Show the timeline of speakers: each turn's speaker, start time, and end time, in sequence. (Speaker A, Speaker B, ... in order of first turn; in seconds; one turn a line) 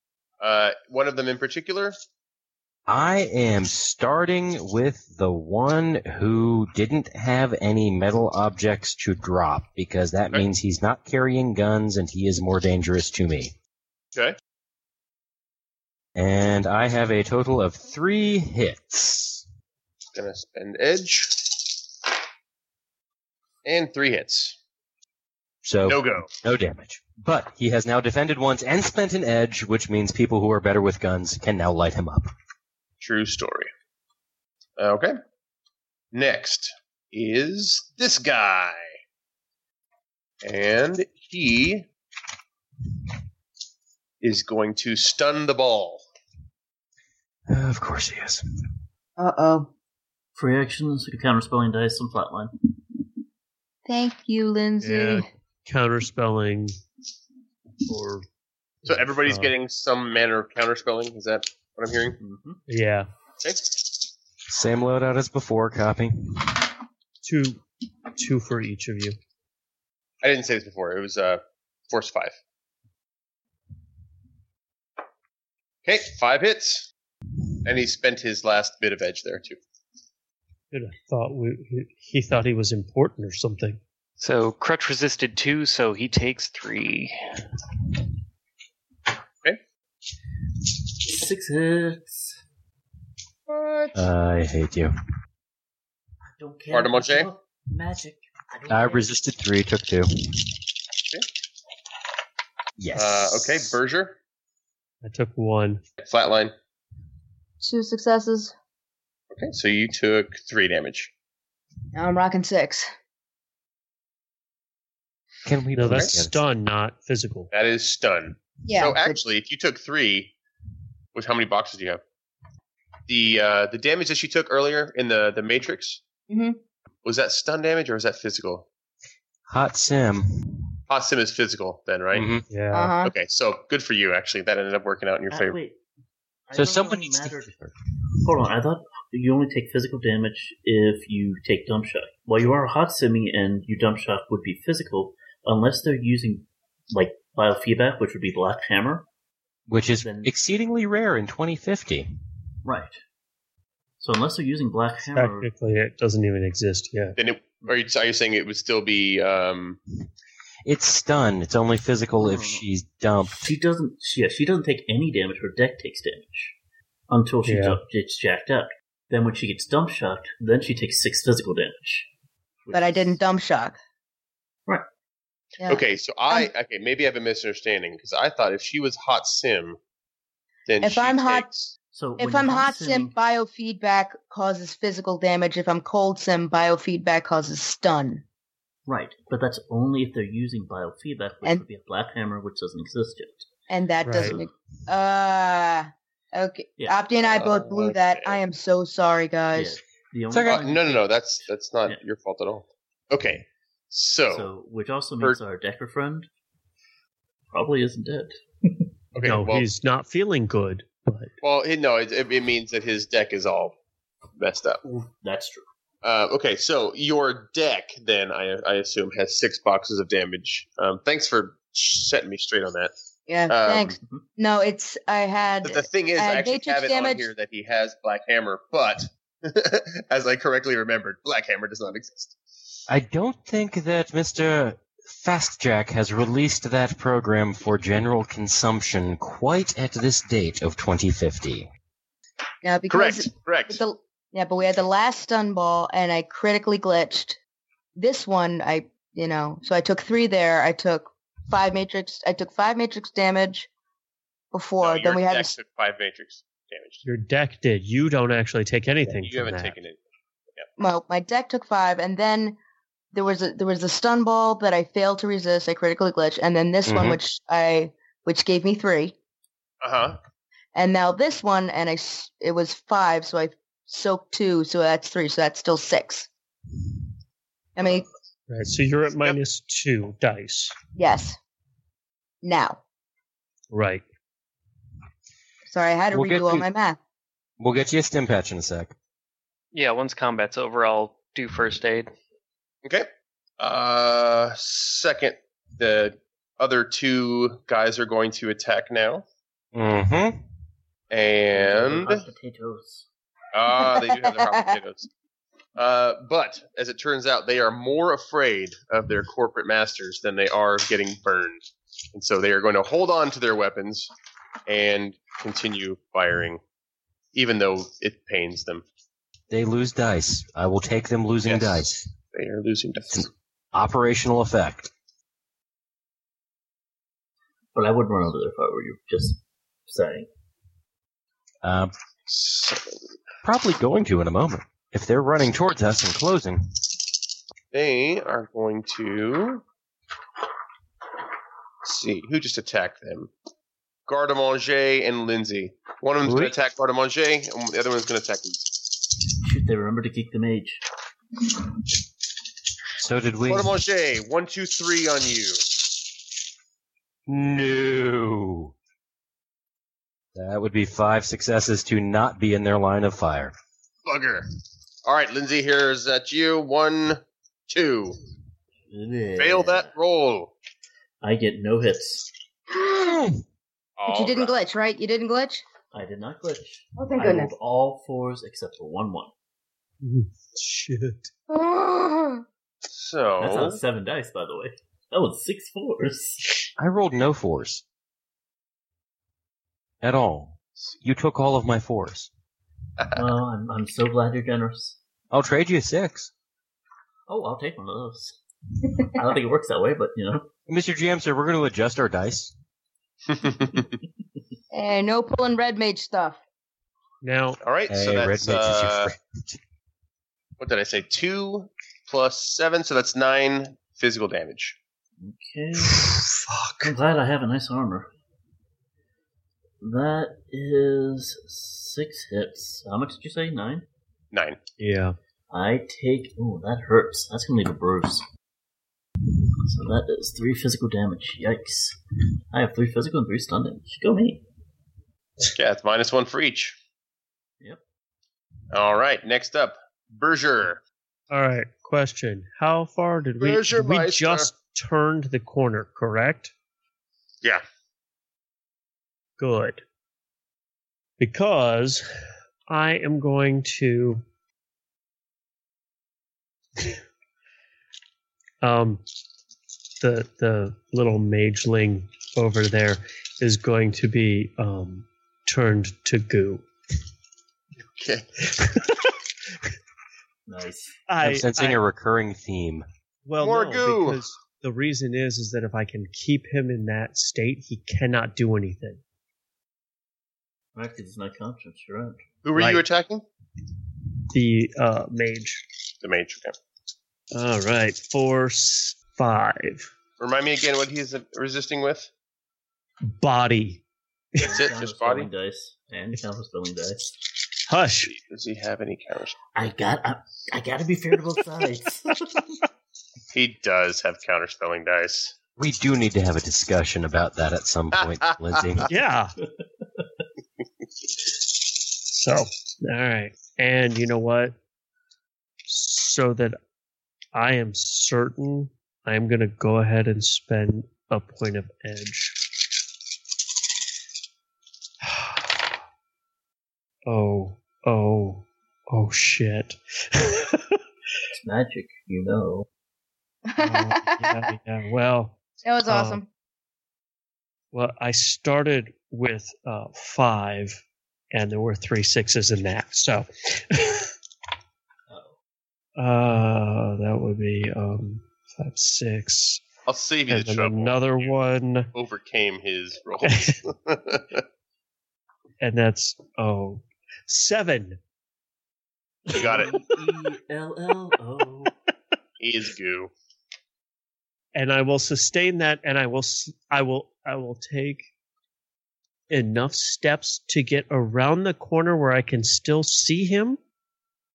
Speaker A: 0.4-2.0
Speaker B: 2.9-13.6
Speaker B: 16.2-19.4
Speaker A: 20.1-21.6
Speaker A: 23.6-24.6
Speaker B: 25.6-32.3
Speaker A: 25.8-26.3
Speaker A: 33.0-33.7
Speaker A: 34.8-35.2
Speaker A: 36.1-38.9
Speaker A: 40.4-41.9
Speaker A: 44.2-46.0
Speaker B: 47.5-48.5
Speaker C: 49.2-49.7
Speaker D: 50.4-52.5
Speaker C: 53.9-55.2
Speaker E: 54.8-56.8
Speaker D: 57.9-58.2
Speaker A: 58.9-62.2
Speaker E: 59.3-59.5
Speaker D: 62.2-62.6
Speaker E: 62.7-63.1
Speaker A: 63.4-63.7
Speaker B: 64.5-66.6
Speaker E: 67.2-67.6
Speaker E: 68.2-69.2
Speaker A: 70.2-72.4
Speaker A: 75.8-76.9
Speaker A: 77.6-79.6
Speaker E: 80.7-83.8
Speaker F: 84.2-87.2
Speaker D: 91.0-92.4
Speaker A: 93.5-94.0
Speaker B: 93.9-94.9
Speaker D: 96.4-99.1
Speaker A: 96.7-97.3
Speaker B: 98.7-100.5
Speaker B: 102.8-103.7
Speaker A: 102.9-104.2
Speaker E: 105.0-105.8
Speaker A: 106.0-106.5
Speaker C: 107.6-108.5
Speaker A: 109.3-111.1
Speaker C: 111.9-112.9
Speaker B: 115.5-116.4
Speaker E: 115.7-117.5
Speaker A: 117.5-120.3
Speaker C: 118.6-119.2
Speaker A: 121.2-122.0
Speaker A: 123.1-126.0
Speaker C: 126.3-126.6
Speaker A: 127.0-128.7
Speaker B: 129.5-130.4
Speaker A: 130.9-132.3
Speaker B: 132.1-132.5
Speaker E: 132.5-132.9
Speaker C: 132.7-133.1
Speaker A: 133.0-135.6
Speaker D: 135.3-135.8
Speaker D: 136.5-137.6
Speaker B: 136.5-137.7
Speaker D: 138.2-149.1
Speaker B: 149.7-152.1
Speaker D: 150.0-150.3
Speaker D: 152.7-153.0
Speaker D: 154.0-155.5
Speaker E: 155.1-157.2
Speaker A: 157.2-159.8
Speaker B: 160.7-163.5
Speaker D: 162.2-162.7
Speaker D: 163.3-166.6
Speaker D: 167.1-172.1
Speaker E: 167.4-167.8
Speaker D: 172.6-173.2
Speaker C: 172.7-173.8
Speaker C: 175.6-176.5
Speaker A: 175.7-179.8
Speaker A: 180.7-181.7
Speaker C: 180.8-181.5
Speaker D: 181.9-183.1
Speaker C: 182.2-188.2
Speaker D: 188.9-193.5
Speaker C: 193.7-199.8
Speaker E: 194.0-194.4
Speaker D: 194.2-194.5
Speaker D: 196.8-197.1
Speaker A: 197.3-198.4
Speaker D: 199.6-201.2
Speaker B: 200.3-200.6
Speaker A: 200.4-204.5
Speaker D: 204.3-206.3
Speaker D: 207.5-208.9
Speaker A: 209.1-209.7
Speaker E: 209.2-211.3
Speaker A: 211.4-213.8
Speaker A: 214.4-214.8
Speaker D: 215.0-215.7
Speaker A: 216.0-222.9
Speaker C: 223.3-227.3
Speaker A: 223.5-223.9
Speaker A: 225.6-232.4
Speaker B: 232.9-241.7
Speaker C: 242.6-247.4
Speaker A: 242.9-243.8
Speaker C: 248.0-253.7
Speaker C: 254.5-255.5
Speaker A: 254.8-257.0
Speaker E: 257.0-259.8
Speaker A: 259.2-260.0
Speaker C: 260.8-262.6
Speaker C: 263.1-269.1
Speaker B: 266.9-267.2
Speaker A: 269.8-270.2
Speaker C: 270.8-276.3
Speaker C: 277.8-278.1
Speaker E: 278.5-280.7
Speaker C: 281.0-281.4
Speaker C: 282.4-282.8
Speaker E: 283.7-284.0
Speaker C: 285.7-287.0
Speaker B: 286.1-286.7
Speaker B: 287.6-288.9
Speaker F: 289.7-292.1
Speaker A: 293.6-299.2
Speaker B: 299.7-300.4
Speaker A: 301.1-302.2
Speaker D: 301.5-303.1
Speaker A: 303.5-305.1
Speaker C: 303.8-304.8
Speaker A: 305.8-311.6
Speaker A: 312.1-314.1
Speaker A: 314.7-316.6
Speaker A: 317.3-318.9
Speaker B: 319.5-322.1
Speaker A: 321.4-323.3
Speaker B: 323.1-324.9
Speaker D: 327.8-330.3
Speaker B: 331.6-331.9
Speaker A: 332.3-333.0
Speaker B: 333.4-336.6
Speaker A: 337.7-339.6
Speaker A: 341.8-343.3
Speaker A: 344.1-348.7
Speaker B: 346.2-346.6
Speaker D: 349.4-350.8
Speaker B: 353.0-353.7
Speaker A: 353.5-355.7
Speaker B: 357.3-358.7
Speaker B: 360.3-363.5
Speaker A: 364.1-364.5
Speaker A: 365.1-368.2
Speaker D: 368.9-369.9
Speaker A: 369.4-370.5
Speaker D: 371.2-372.3
Speaker C: 372.7-373.3
Speaker A: 374.0-374.6
Speaker C: 374.1-375.6
Speaker D: 375.9-379.3
Speaker C: 377.0-377.5
Speaker E: 380.0-381.3
Speaker C: 381.5-382.4
Speaker A: 382.9-383.8
Speaker D: 383.4-386.5
Speaker B: 386.8-387.8
Speaker B: 390.0-392.3
Speaker D: 393.1-395.0
Speaker B: 395.3-396.3
Speaker D: 397.3-398.4
Speaker D: 399.0-400.5
Speaker B: 400.7-402.5
Speaker A: 403.3-404.0
Speaker C: 404.7-406.4
Speaker E: 407.2-407.6
Speaker A: 407.6-409.1
Speaker B: 407.9-409.6
Speaker A: 410.6-414.8
Speaker D: 415.2-416.3
Speaker E: 415.9-416.9
Speaker D: 416.8-418.1
Speaker D: 419.8-423.9
Speaker A: 424.3-424.6
Speaker E: 424.8-425.2
Speaker D: 425.5-428.2
Speaker D: 429.6-432.0
Speaker D: 432.5-434.4
Speaker A: 435.4-436.8
Speaker A: 438.7-440.8
Speaker E: 441.3-446.5
Speaker A: 443.4-444.5
Speaker E: 449.4-449.8
Speaker E: 451.2-452.1
Speaker E: 452.7-454.2
Speaker E: 458.6-459.0
Speaker E: 460.0-466.6
Speaker A: 467.9-468.3
Speaker E: 468.4-469.7
Speaker D: 470.5-471.0
Speaker E: 471.1-471.8
Speaker B: 471.2-472.9
Speaker E: 473.2-479.0
Speaker A: 473.4-474.2
Speaker D: 480.8-482.2
Speaker A: 482.4-483.2
Speaker E: 482.6-482.8
Speaker E: 484.3-485.6
Speaker A: 486.0-486.6
Speaker E: 487.3-489.9
Speaker A: 490.2-492.1
Speaker E: 493.1-493.8
Speaker D: 494.4-497.1
Speaker A: 494.4-495.3
Speaker E: 497.7-498.1
Speaker A: 498.0-499.4
Speaker D: 499.6-502.5
Speaker A: 503.3-505.4
Speaker B: 505.6-508.9
Speaker A: 508.0-508.9
Speaker E: 508.9-509.4
Speaker D: 509.4-510.1
Speaker E: 511.9-514.6
Speaker E: 515.7-516.6
Speaker E: 517.3-522.4
Speaker E: 525.0-525.6
Speaker E: 527.1-530.8
Speaker D: 531.3-532.7
Speaker C: 533.5-534.5
Speaker E: 533.6-536.2
Speaker C: 535.6-536.3
Speaker E: 537.7-540.8
Speaker E: 541.3-544.1
Speaker D: 545.1-545.4
Speaker E: 546.0-549.6
Speaker A: 549.9-551.3
Speaker E: 550.3-551.9
Speaker A: 551.9-554.4
Speaker E: 553.2-553.6
Speaker E: 555.6-558.0
Speaker D: 559.3-561.7
Speaker E: 559.3-559.6
Speaker A: 559.4-559.8
Speaker A: 562.4-563.1
Speaker E: 564.5-568.1
Speaker E: 569.3-573.6